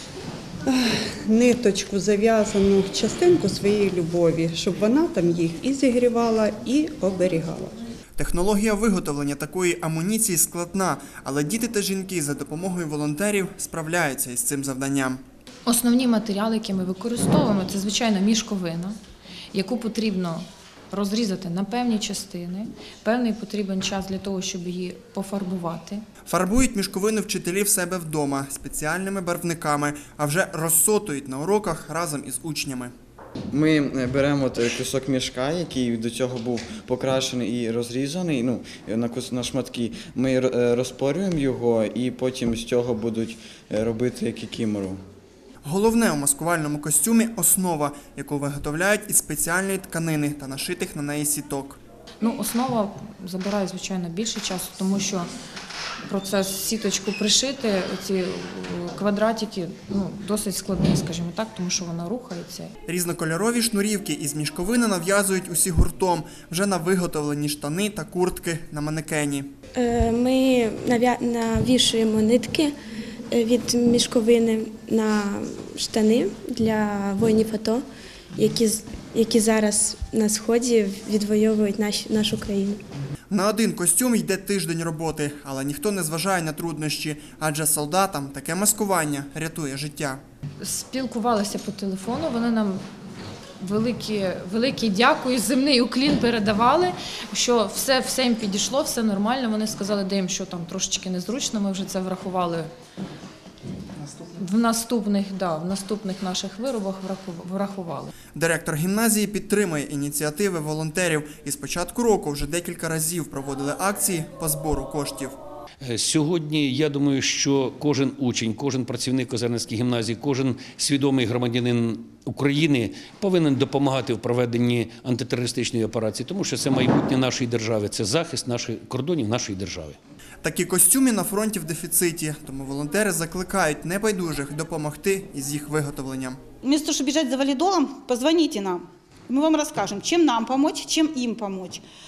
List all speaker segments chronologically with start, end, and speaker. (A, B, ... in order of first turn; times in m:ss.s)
0:00.6-0:07.8 A
0:08.2-0:15.2 B
0:15.6-0:19.0 C
0:19.5-0:26.0 C
0:26.3-0:32.9 B
0:33.5-0:45.0 D
0:45.6-0:51.8 B
0:52.2-0:55.3 C
0:56.0-1:02.7 C
1:02.9-1:09.5 B
1:09.7-1:12.7 E
1:13.3-1:17.8 E
1:18.4-1:22.8 E
1:23.3-1:30.2 B
1:30.6-1:32.8 C
1:33.6-1:42.7 C
1:44.4-1:48.1 C
1:48.3-1:55.4 B
1:55.8-2:10.0 F
2:10.4-2:16.4 B
2:16.6-2:21.8 G